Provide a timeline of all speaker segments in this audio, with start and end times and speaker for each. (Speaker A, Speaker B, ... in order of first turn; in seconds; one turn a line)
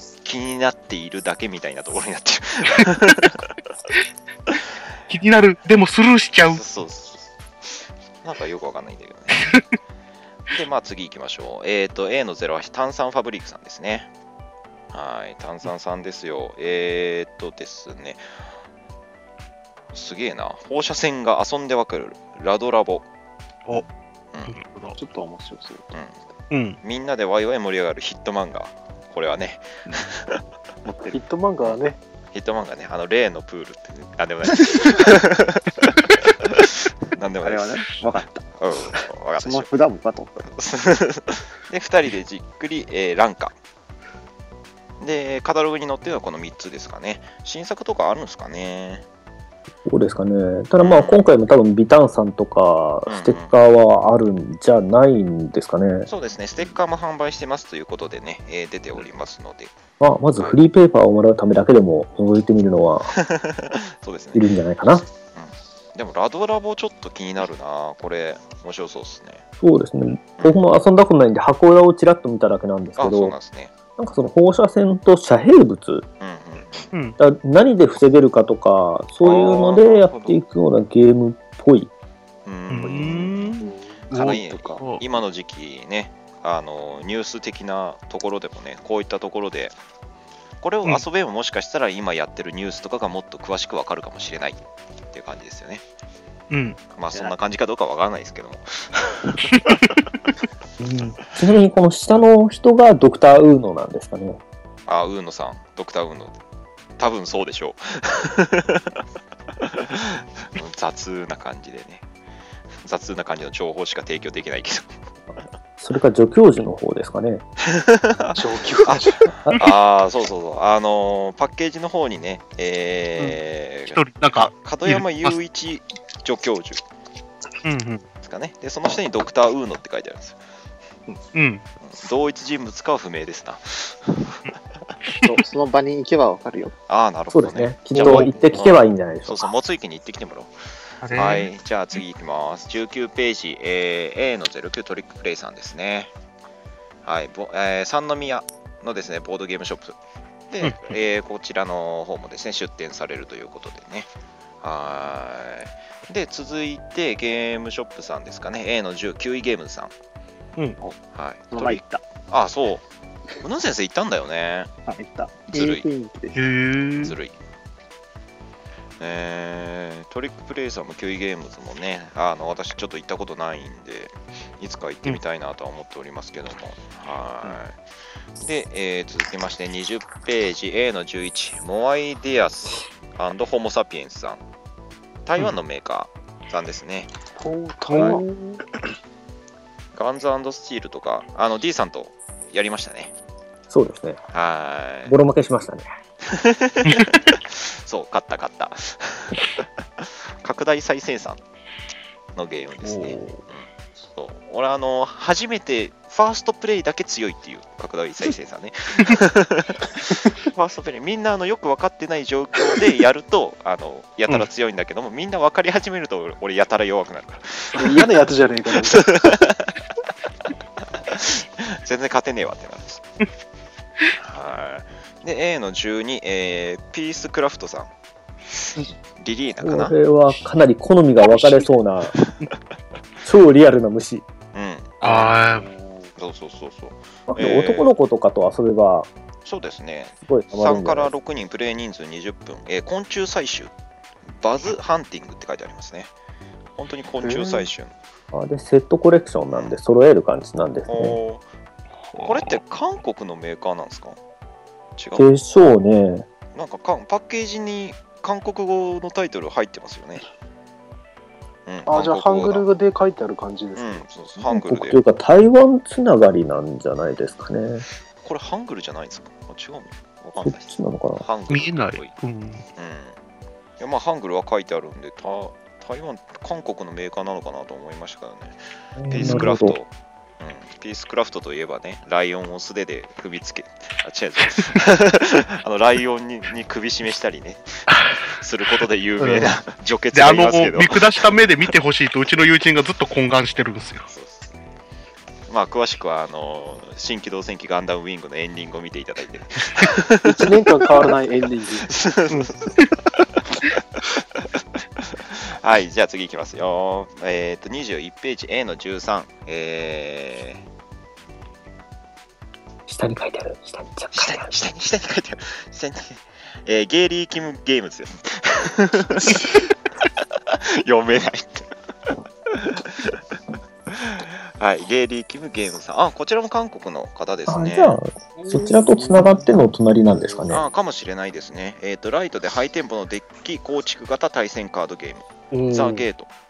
Speaker A: 0.2-3.5
Speaker B: 5.1-6.6
Speaker A: 6.5-7.3
Speaker A: 8.2-9.5
Speaker A: 10.5-14.1
Speaker A: 14.9-18.2
Speaker A: 19.9-23.1
Speaker B: 24.5-25.0
Speaker C: 25.0-25.9
Speaker B: 26.5-26.8
Speaker A: 26.8-30.4
Speaker C: 30.8-31.2
Speaker D: 31.1-32.0
Speaker A: 32.3-37.9
Speaker C: 37.4-40.5
Speaker A: 38.6-39.7
Speaker A: 40.5-43.5
Speaker A: 45.0-49.0
Speaker E: 49.8-56.1
Speaker A: 50.8-51.3
Speaker A: 53.1-53.5
Speaker A: 56.1-59.7
Speaker E: 60.0-63.1
Speaker A: 63.1-64.5
Speaker E: 64.3-65.0
Speaker A: 65.3-69.4
Speaker E: 69.6-73.3
Speaker A: 73.0-73.7
Speaker E: 74.0-76.0
Speaker A: 76.2-76.9
Speaker B: 76.9-77.2
Speaker E: 77.2-81.9
Speaker A: 79.2-80.3
Speaker A: 82.5-83.5
Speaker B: 82.7-85.0
Speaker D: 83.6-84.3
Speaker A: 84.1-89.7
Speaker A: 90.6-94.6
Speaker A: 95.1-95.8
Speaker B: 96.5-96.8
Speaker A: 96.9-99.8
Speaker B: 99.5-99.8
Speaker E: 100.8-104.4
Speaker A: 104.9-106.3
Speaker A: 107.0-109.0
Speaker A: 109.6-112.0
Speaker A: 112.8-115.0
Speaker E: 115.8-117.4
Speaker A: 117.6-126.8
Speaker D: 118.3-119.2
Speaker B: 123.9-125.3
Speaker B: 127.6-128.0
Speaker A: 128.2-130.4
Speaker B: 131.3-131.6
Speaker A: 131.8-134.5
Speaker C: 135.2-136.7
Speaker A: 136.9-146.1
Speaker E: 137.3-139.5
Speaker B: 137.9-138.6
Speaker B: 141.0-141.5
Speaker A: 147.0-149.9
Speaker A: 150.5-154.1
Speaker B: 150.6-150.9
Speaker A: 154.6-159.9
Speaker A: 161.1-162.8
Speaker C: 161.5-162.0
Speaker A: 163.4-164.7
Speaker C: 164.9-166.4
Speaker A: 165.5-165.8
Speaker B: 166.3-167.2
Speaker A: 167.0-167.3
Speaker A: 169.0-177.8
Speaker A: 178.4-184.4
Speaker A: 185.2-187.1
Speaker D: 187.4-188.3
Speaker B: 187.9-188.2
Speaker A: 187.9-188.2
Speaker A: 189.9-193.1
Speaker E: 193.7-194.2
Speaker A: 194.3-195.1
Speaker E: 195.1-195.8
Speaker A: 196.2-201.4
Speaker B: 196.8-197.2
Speaker A: 202.3-218.1
Speaker D: 217.7-219.0
Speaker A: 218.8-219.8
Speaker A: 221.0-223.0
Speaker A: 224.1-227.9
Speaker A: 229.2-229.9
Speaker E: 229.6-232.1
Speaker E: 233.2-234.2
Speaker A: 234.5-235.4
Speaker B: 235.0-235.7
Speaker C: 235.5-236.1
Speaker A: 236.2-237.9
Speaker E: 237.3-239.1
Speaker A: 239.4-243.7
Speaker E: 240.3-241.1
Speaker A: 244.3-246.1
Speaker A: 246.8-247.9
Speaker D: 247.2-247.6
Speaker E: 248.3-251.2
Speaker A: 249.5-249.8
Speaker A: 250.9-251.4
Speaker B: 252.1-252.5
Speaker A: 252.2-254.2
Speaker A: 255.0-255.3
Speaker E: 255.1-256.3
Speaker A: 256.5-260.2
Speaker A: 261.6-262.6
Speaker D: 261.9-264.0
Speaker A: 263.8-265.0
Speaker E: 264.4-267.8
Speaker A: 268.2-272.1
Speaker E: 270.4-271.2
Speaker B: 271.5-272.6
Speaker A: 272.8-273.1
Speaker A: 273.8-279.9
Speaker E: 279.0-279.8
Speaker B: 279.1-279.5
Speaker A: 280.4-291.3
Speaker B: 287.9-288.2
Speaker B: 290.1-294.1
Speaker A: 294.1-294.5
Speaker A: 295.5-300.5
Speaker D: 300.2-301.9
Speaker A: 301.9-303.2
Speaker B: 302.3-302.9
Speaker A: 305.0-310.6
Speaker E: 312.9-314.5
Speaker A: 314.1-319.7
Speaker A: 320.4-321.7
Speaker A: 322.5-323.2
Speaker A: 323.9-328.0
Speaker E: 327.5-330.6
Speaker A: 330.5-336.3